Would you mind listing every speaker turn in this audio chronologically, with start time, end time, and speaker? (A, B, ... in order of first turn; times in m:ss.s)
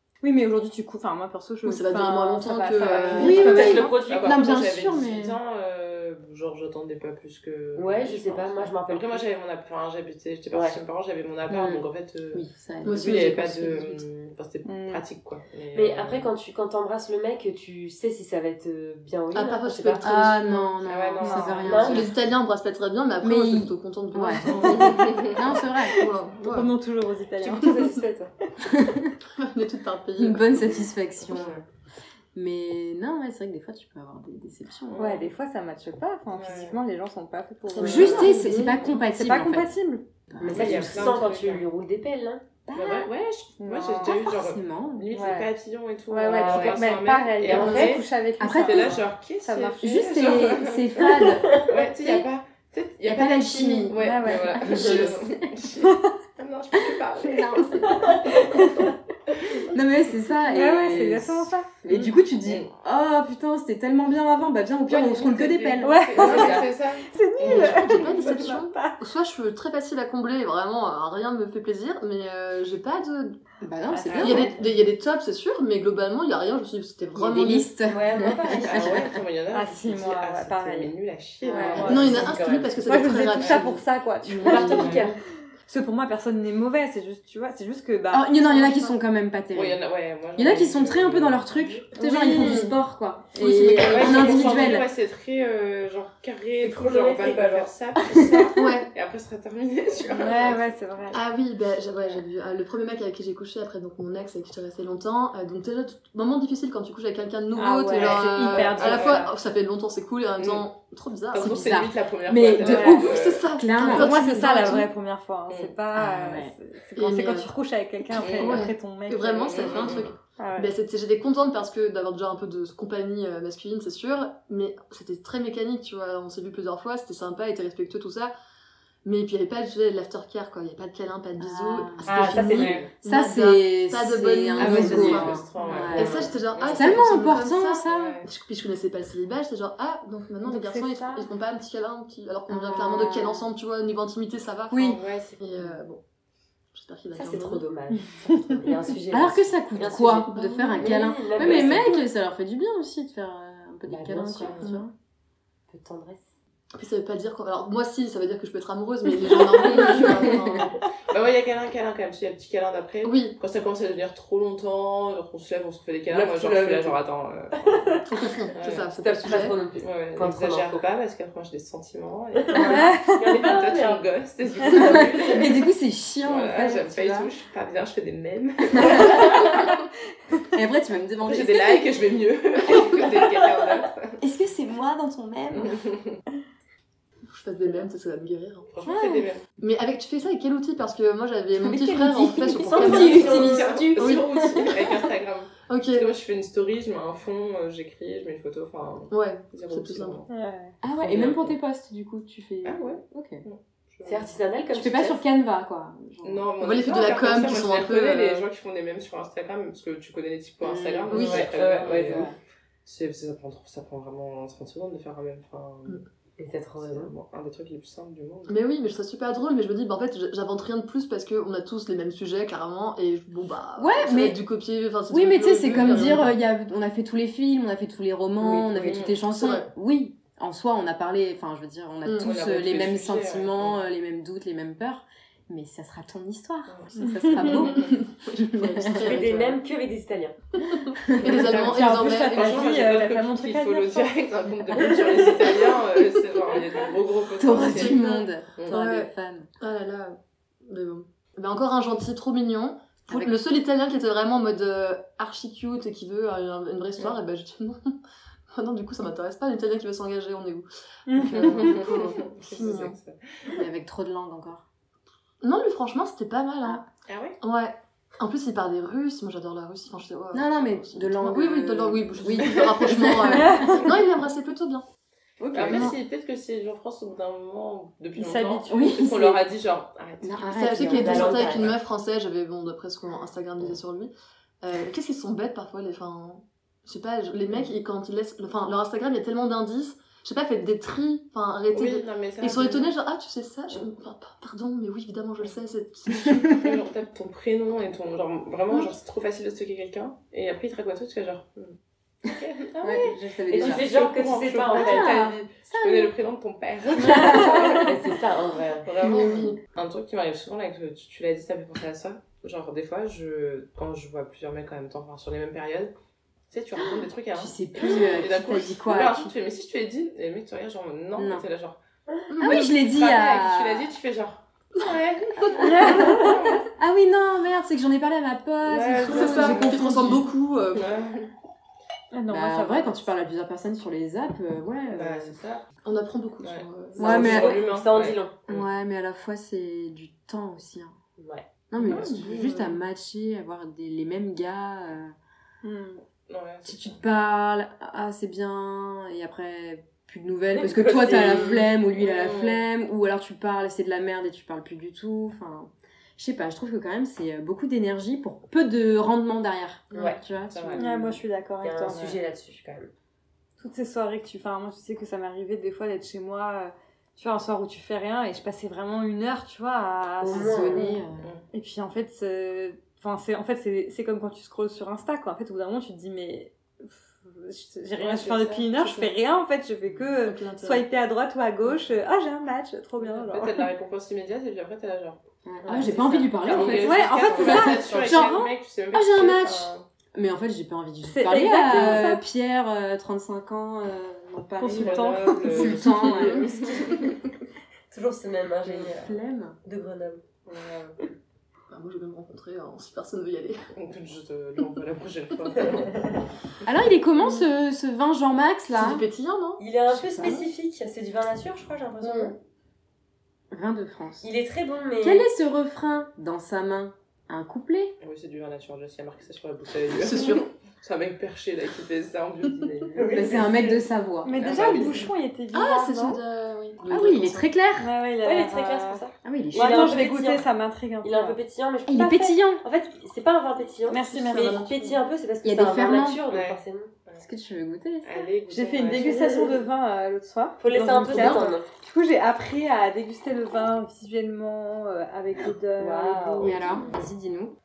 0:00.2-0:04.0 A
0:01.6-0:03.8 B
0:03.1-0:05.4 C
0:03.2-0:04.5 D
0:03.6-0:16.3 E
0:07.8-0:09.2 D
0:10.5-0:10.8 D
0:11.5-0:13.2 C
0:12.8-0:14.0 B
0:14.6-0:15.0 A
0:15.7-0:20.0 D
0:19.3-0:20.7 B
0:20.0-0:22.1 C
0:20.8-0:22.0 E
0:21.2-0:21.7 A
0:21.6-0:22.0 D
0:21.7-0:26.7 B
0:23.2-0:26.0 C
0:24.4-0:25.4 E
0:26.4-0:28.5 A
0:28.6-0:29.1 C
0:29.4-0:30.7 B
0:30.2-0:31.6 C
0:31.2-0:31.6 E
0:32.3-0:35.2 C
0:34.9-0:35.3 E
0:35.0-0:38.5 A
0:36.3-0:36.8 E
0:37.7-0:38.9 B
0:37.8-0:39.7 C
0:37.8-0:38.3 E
0:39.1-0:40.0 A
0:40.3-0:41.1 C
0:40.4-0:42.4 D
0:40.5-0:41.6 E
0:42.7-0:43.1 C
0:42.7-0:58.9 E
0:43.6-0:44.2 A
0:44.0-0:45.1 C
0:45.1-0:45.5 A
0:46.1-0:50.0 A
0:46.3-0:46.8 D
0:47.4-0:47.9 D
0:47.5-0:48.0 B
0:48.4-0:49.0 C
0:49.8-0:52.2 C
0:51.4-0:51.7 D
0:53.0-0:54.0 C
0:53.9-0:54.9 A
0:54.6-0:55.5 C
0:55.8-0:56.1 A
0:57.2-0:58.2 C
0:57.5-0:58.9 A
0:59.4-0:59.7 E
0:59.7-1:06.6 C
1:00.3-1:02.2 A
1:02.4-1:02.7 E
1:04.8-1:08.1 E
1:05.8-1:09.0 A
1:07.4-1:13.4 B
1:13.6-1:14.5 C
1:13.9-1:14.7 A
1:14.1-1:17.7 B
1:17.1-1:19.2 C
1:17.9-1:19.1 D
1:18.6-1:22.4 E
1:19.5-1:20.9 A
1:21.4-1:22.3 A
1:21.5-1:22.9 D
1:21.8-1:25.0 B
1:22.8-1:25.1 A
1:24.4-1:25.2 D
1:24.5-1:25.1 E
1:25.6-1:29.0 A
1:28.1-1:29.8 C
1:29.5-1:31.9 E
1:30.4-1:34.9 C
1:31.9-1:32.7 A
1:32.3-1:32.7 B
1:33.4-1:34.8 B
1:33.8-1:40.6 E
1:36.6-1:37.7 D
1:38.1-1:38.5 C
1:38.5-1:38.9 B
1:40.0-1:41.2 A
1:41.1-1:51.7 B
1:47.5-1:49.3 A
1:47.9-1:49.2 E
1:50.4-1:50.6 E
1:51.3-1:53.5 E
1:51.3-1:54.7 C
1:52.6-1:53.0 A
1:52.7-1:54.9 B
1:53.8-2:00.7 A
1:55.9-1:56.5 C
1:57.0-1:57.5 B
1:58.2-1:58.6 E
1:58.4-2:08.3 B
1:59.5-2:00.1 E
2:09.0-2:26.0 B
2:11.4-2:18.2 C
2:12.0-2:12.9 D
2:12.5-2:12.9 E
2:14.6-2:17.1 E
2:17.9-2:18.3 E
2:20.5-2:21.2 A
2:22.5-2:23.5 C
2:24.7-2:25.0 C
2:24.8-2:25.4 E
2:26.7-2:27.6 B
2:27.1-2:32.0 D
2:28.0-2:28.7 A
2:29.1-2:34.9 C
2:30.3-2:30.9 B
2:31.4-2:31.8 E
2:33.8-2:34.6 D
2:35.7-2:36.2 D
2:36.8-2:40.7 B
2:39.7-2:40.3 E
2:41.1-2:48.0 E
2:43.0-2:43.4 B
2:46.1-2:47.0 D
2:47.6-2:48.1 D
2:48.1-2:49.6 B
2:48.5-2:48.9 E
2:49.0-2:50.8 D
2:49.8-2:55.6 E
2:52.4-2:54.0 D
2:52.7-2:53.3 A
2:54.7-2:55.3 D
2:54.8-2:57.3 C
2:56.2-2:59.7 E
2:58.8-2:59.6 C
3:00.5-3:01.9 C
3:01.2-3:04.2 E
3:04.2-3:05.8 C
3:05.6-3:06.2 E
3:07.3-3:08.7 B
3:08.7-3:09.4 E
3:08.8-3:09.3 C
3:09.6-3:14.2 B
3:11.6-3:14.9 C
3:12.6-3:14.1 D
3:12.7-3:20.3 E
3:15.7-3:16.1 B
3:19.1-3:20.2 B
3:20.3-3:20.8 A
3:20.8-3:23.4 C
3:21.0-3:21.6 E
3:22.6-3:24.3 E
3:24.0-3:25.2 D
3:24.7-3:26.5 C
3:26.2-3:32.3 E
3:26.6-3:28.4 B
3:30.6-3:32.3 C
3:31.1-3:32.3 D
3:31.1-3:31.4 B
3:32.8-3:36.0 E
3:36.4-3:37.1 D
3:36.8-3:38.6 E
3:38.5-3:46.3 B
3:43.8-3:44.4 C
3:45.1-3:59.2 C
3:45.7-3:46.1 E
3:48.7-3:49.2 E
3:49.3-3:49.6 B
3:52.0-3:52.3 B
3:52.2-3:53.8 E
3:56.7-3:56.9 E
3:57.0-3:57.7 A
3:57.4-3:57.9 E
3:57.5-3:59.6 B
3:59.0-4:00.4 D
4:00.7-4:02.7 B
4:01.0-4:01.6 C
4:01.2-4:08.0 E
4:01.5-4:04.2 A
4:04.7-4:05.4 A
4:07.4-4:09.5 C
4:07.5-4:17.9 B
4:18.5-4:23.0 B
4:21.1-4:21.8 A
4:21.3-4:23.6 E
4:23.5-4:24.6 C
4:25.4-4:26.8 B
4:27.0-4:27.4 E
4:27.4-4:34.8 B
4:30.3-4:33.8 C
4:33.3-4:33.9 A
4:35.4-4:36.0 C
4:35.5-4:40.5 E
4:35.7-4:35.9 B
4:38.2-4:38.9 A
4:38.7-4:39.4 C
4:40.2-4:41.7 C
4:40.5-4:44.1 B
4:40.9-4:41.7 D
4:44.6-4:56.8 B
4:51.7-4:52.9 E
4:56.4-5:08.1 E
5:02.8-5:03.9 C
5:03.5-5:05.2 D
5:04.7-5:06.1 C
5:07.0-5:08.0 C
5:07.7-5:08.9 D
5:08.8-5:15.9 E
5:09.0-5:09.6 B
5:09.2-5:09.5 C
5:16.5-5:21.8 E
5:17.3-5:19.3 C
5:21.2-5:21.4 C
5:22.3-5:22.7 B
5:22.4-5:23.9 C
5:22.4-5:26.7 E
5:25.4-5:25.7 B
5:25.6-5:30.3 C
5:25.6-5:26.4 A
5:28.6-5:30.1 E
5:29.0-5:30.8 B
5:30.7-5:31.3 E
5:32.1-5:33.1 A
5:32.3-5:35.4 C
5:34.9-5:35.6 E
5:35.8-5:37.4 B
5:36.4-5:38.7 E
5:37.0-5:37.6 C
5:37.0-5:38.3 D
5:38.5-5:40.9 C
5:41.2-5:41.5 D
5:41.7-5:45.1 C
5:41.9-5:42.3 E
5:41.9-5:42.3 A
5:42.0-5:42.7 B
5:45.6-5:46.0 A
5:46.3-5:47.0 E
5:46.6-6:00.8 C
5:50.5-5:51.6 D
5:51.9-5:52.6 E
5:59.9-6:00.2 D
6:00.5-6:01.1 E
6:00.7-6:02.2 A
6:01.6-6:02.9 D
6:03.6-6:11.0 A
6:10.2-6:10.9 D
6:10.3-6:11.3 C
6:11.2-6:11.4 E
6:11.5-6:23.7 A
6:18.0-6:18.7 E
6:18.8-6:19.1 B
6:20.2-6:20.8 B
6:23.0-6:29.8 E
6:25.4-6:37.1 C
6:25.6-6:26.9 D
6:26.6-6:28.3 A
6:31.0-6:32.2 A
6:31.7-6:32.0 E
6:34.6-6:36.2 A
6:34.7-6:37.1 E
6:36.2-6:37.0 B
6:37.9-6:40.2 D
6:38.7-6:39.6 C
6:40.4-6:41.0 E
6:41.7-6:43.6 B
6:43.7-6:46.2 E
6:46.6-6:49.0 C
6:47.2-6:47.4 B
6:48.7-6:49.6 B
6:49.6-6:52.3 D
6:50.0-6:50.4 C
6:50.2-6:50.4 B
6:52.0-6:52.3 B
6:53.5-6:54.3 C
6:54.2-6:55.2 D
6:55.0-6:57.9 C
6:58.0-7:03.8 E
7:00.0-7:00.4 B
7:03.0-7:03.7 D
7:03.1-7:04.9 C
7:04.2-7:06.2 A
7:04.3-7:05.1 E
7:05.5-7:07.5 B
7:06.9-7:07.9 C
7:07.8-7:11.4 A
7:08.2-7:10.4 D
7:09.2-7:09.9 C
7:11.0-7:16.9 D
7:11.9-7:12.6 C
7:13.9-7:14.7 A
7:14.0-7:15.0 B
7:15.4-7:16.2 C
7:16.3-7:17.3 E
7:17.2-7:18.1 C
7:18.0-7:19.4 E
7:18.5-7:26.7 A
7:18.9-7:19.5 D
7:20.6-7:21.7 D
7:25.8-7:26.9 D
7:26.4-7:27.5 C